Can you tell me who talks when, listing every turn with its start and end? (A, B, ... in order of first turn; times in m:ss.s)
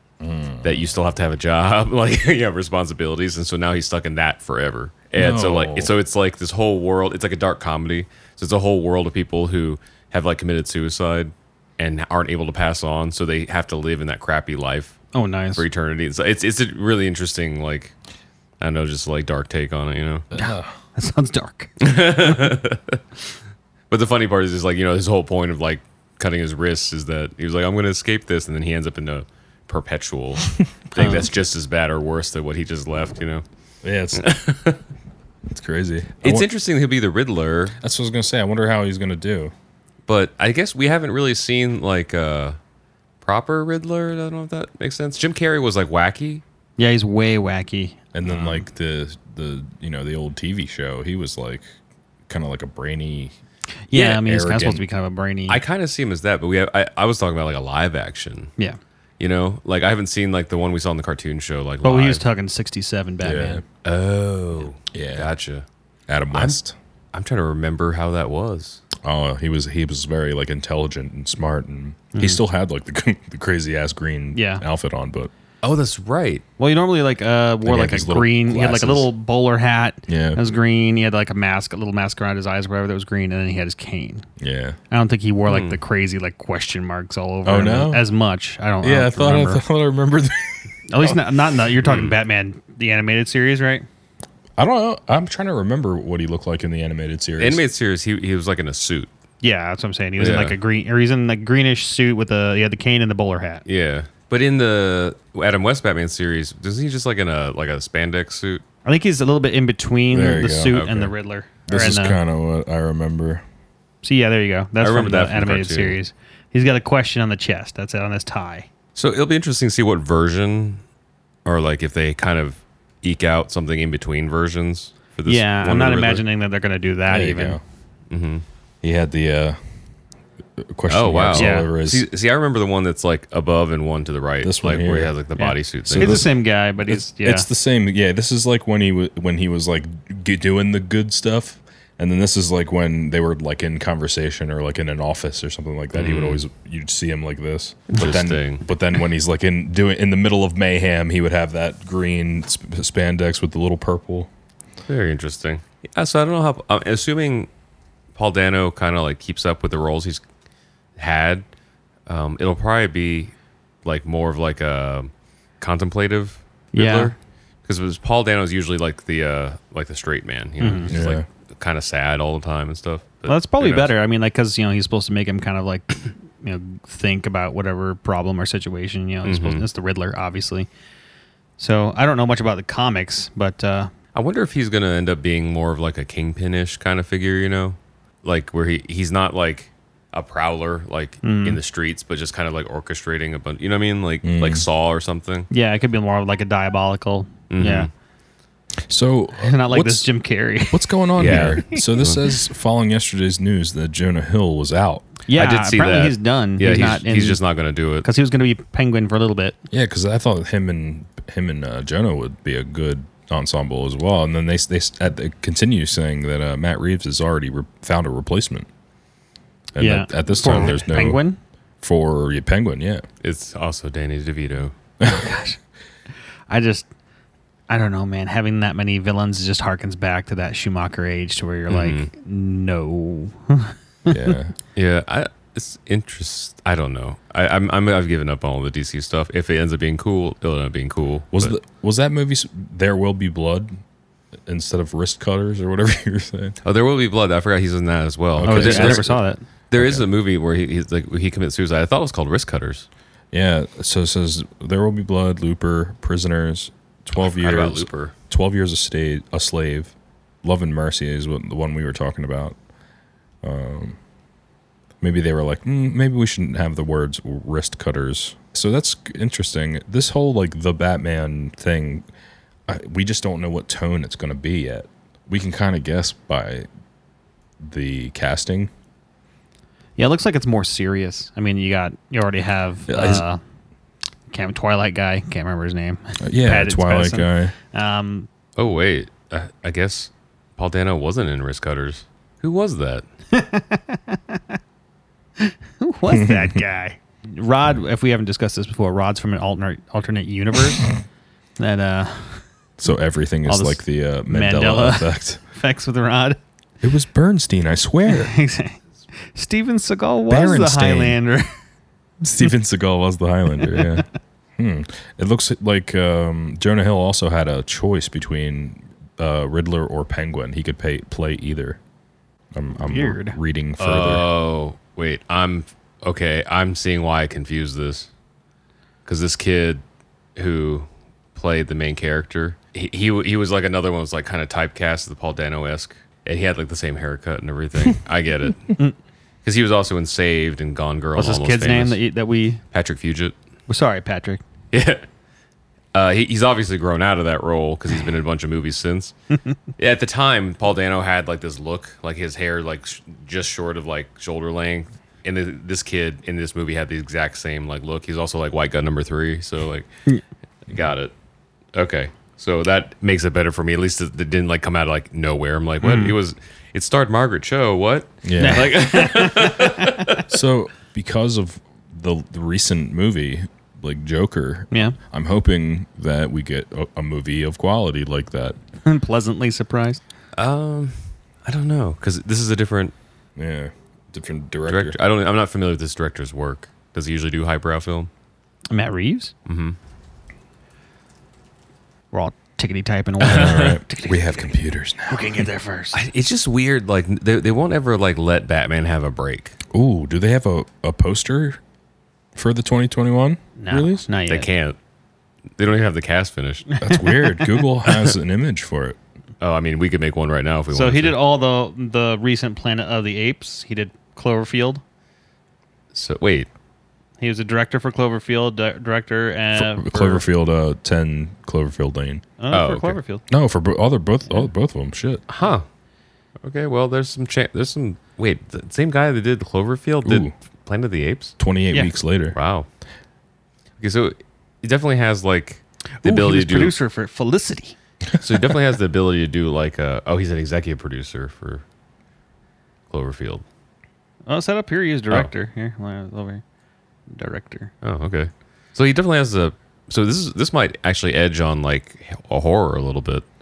0:00.2-0:00.8 A
0:00.6-0:15.0 B
0:05.2-0:05.9 A
0:15.1-0:15.6 C
0:15.6-0:17.9 B
0:18.6-0:20.3 B
0:20.3-0:20.7 A
0:20.4-0:22.6 C
0:21.8-0:23.0 B
0:23.9-0:33.4 B
0:30.9-0:31.3 C
0:33.8-0:34.2 A
0:34.1-0:34.8 B
0:35.5-0:36.5 A
0:36.2-0:37.8 B
0:37.8-0:39.5 A
0:40.1-0:42.6 B
0:43.2-0:46.4 B
0:46.8-0:48.6 C
0:48.1-0:51.7 A
0:52.3-0:53.3 A
0:53.9-0:55.6 C
0:53.9-0:54.2 B
0:54.2-0:54.8 A
0:55.5-0:58.5 B
0:59.2-1:02.2 B
1:01.8-1:03.6 C
1:03.2-1:03.6 A
1:03.8-1:05.6 B
1:04.9-1:05.3 A
1:06.1-1:06.8 A
1:06.3-1:06.6 B
1:07.1-1:08.8 B
1:09.0-1:15.3 A
1:12.1-1:12.4 C
1:14.3-1:14.6 C
1:15.6-1:16.4 B
1:16.6-1:24.2 C
1:17.6-1:19.1 A
1:20.1-1:20.4 A
1:24.4-1:24.8 A
1:24.9-1:29.6 C
1:25.5-1:25.8 B
1:27.4-1:28.0 A
1:28.8-1:30.6 A
1:30.9-1:33.9 C
1:31.8-1:32.1 B
1:34.6-1:37.6 A
1:37.4-1:39.1 B
1:39.4-1:43.6 C
1:40.2-1:40.6 B
1:43.7-1:48.6 B
1:48.8-1:52.2 C
1:50.1-1:50.8 A
1:50.7-1:51.1 B
1:51.7-1:53.4 A
1:54.0-1:58.7 C
1:54.8-1:56.0 B
1:59.0-2:00.8 B
2:01.4-2:06.2 B
2:05.3-2:07.6 C
2:07.1-2:07.6 A
2:08.1-2:08.4 B
2:08.8-2:09.6 A
2:10.6-2:12.0 A
2:10.9-2:16.2 B
2:11.3-2:11.7 C
2:14.4-2:15.1 A
2:15.4-2:17.5 C
2:15.9-2:34.3 A
2:25.9-2:26.4 B
2:27.9-2:28.7 B
2:34.9-2:37.5 B
2:38.2-2:40.2 B
2:41.0-2:41.5 B
2:42.1-2:43.3 B
2:43.8-2:47.2 B
2:46.7-2:47.1 C
2:47.7-2:53.9 B
2:50.6-2:50.9 C
2:50.9-2:51.2 A
2:53.3-3:00.7 C
2:59.2-2:59.6 B
3:01.6-3:03.9 C
3:04.2-3:15.5 B
3:11.2-3:11.6 C
3:14.2-3:14.7 A
3:15.5-3:17.9 C
3:17.5-3:17.9 B
3:18.9-3:20.1 A
3:19.4-3:21.8 C
3:20.7-3:25.0 A
3:21.2-3:22.2 B
3:25.3-3:27.4 C
3:25.3-3:28.1 B
3:28.0-3:29.6 C
3:29.7-3:38.7 A
3:39.8-3:41.2 A
3:39.8-3:41.4 C
3:41.8-3:43.0 A
3:43.2-3:44.8 B
3:45.0-3:45.3 A
3:45.0-3:45.6 C
3:46.5-3:46.9 C
3:47.7-3:54.4 C
3:51.7-3:52.1 B
3:54.1-3:54.6 A
3:54.8-4:01.6 B
4:01.3-4:03.7 A
4:04.5-4:06.6 A
4:06.6-4:09.2 B
4:08.4-4:09.2 A
4:08.4-4:09.4 C
4:09.7-4:12.9 B
4:09.8-4:10.1 A
4:13.3-4:22.6 A
4:17.2-4:18.1 B
4:23.4-4:24.0 A
4:25.0-4:32.1 A
4:32.7-4:36.7 A
4:37.6-4:38.7 A
4:40.0-4:43.4 C
4:42.9-4:43.2 A
4:44.3-4:48.3 C
4:46.2-4:47.6 A
4:48.6-4:53.0 B
4:53.3-4:54.4 C
4:55.4-5:00.9 C
4:56.1-4:56.6 A
5:01.6-5:02.4 C
5:02.8-5:05.4 A
5:03.5-5:06.4 C
5:06.8-5:08.3 A
5:08.1-5:08.8 C
5:09.3-5:11.5 C
5:10.3-5:11.2 A
5:12.2-5:21.8 A
5:13.6-5:14.0 C
5:22.5-5:24.3 A
5:22.8-5:23.4 C
5:23.8-5:28.1 B
5:29.1-5:29.8 B
5:30.4-5:38.8 B
5:39.4-5:42.0 B
5:41.2-5:42.6 C
5:42.7-5:43.4 B
5:43.7-5:44.4 C
5:44.7-5:45.1 B
5:45.9-5:49.1 B
5:49.8-5:59.9 B
6:00.7-6:01.1 B
6:01.7-6:10.2 B
6:05.8-6:06.2 C
6:08.2-6:08.8 A
6:08.4-6:10.2 C
6:10.3-6:18.6 A
6:14.7-6:15.0 C
6:18.8-6:20.0 C
6:20.4-6:22.9 B
6:23.4-6:25.0 A
6:24.7-6:28.1 B
6:28.7-6:29.3 C
6:29.5-6:29.8 B
6:32.1-6:36.0 C
6:33.2-6:35.5 A
6:33.3-6:33.7 B
6:35.9-6:39.6 B
6:39.7-6:41.6 A
6:42.4-6:44.0 A
6:43.6-6:44.5 C
6:44.3-6:44.8 B
6:45.6-6:46.8 B
6:46.8-6:47.1 C
6:46.8-6:49.0 A
6:47.8-6:48.2 B
6:49.4-6:51.2 B
6:50.7-6:54.8 C
6:55.9-6:56.5 B
6:57.2-7:00.2 C
6:59.5-7:02.2 A
7:02.4-7:03.2 C
7:02.5-7:03.0 B
7:03.3-7:05.2 A
7:05.3-7:05.6 B
7:06.4-7:11.4 B
7:10.0-7:10.3 A
7:11.4-7:12.4 A
7:12.3-7:12.7 B
7:13.8-7:16.8 B
7:16.0-7:17.8 C
7:18.2-7:21.6 B
7:22.9-7:23.4 B
7:24.3-7:26.4 C
7:27.1-7:27.7 C
7:27.8-7:33.2 B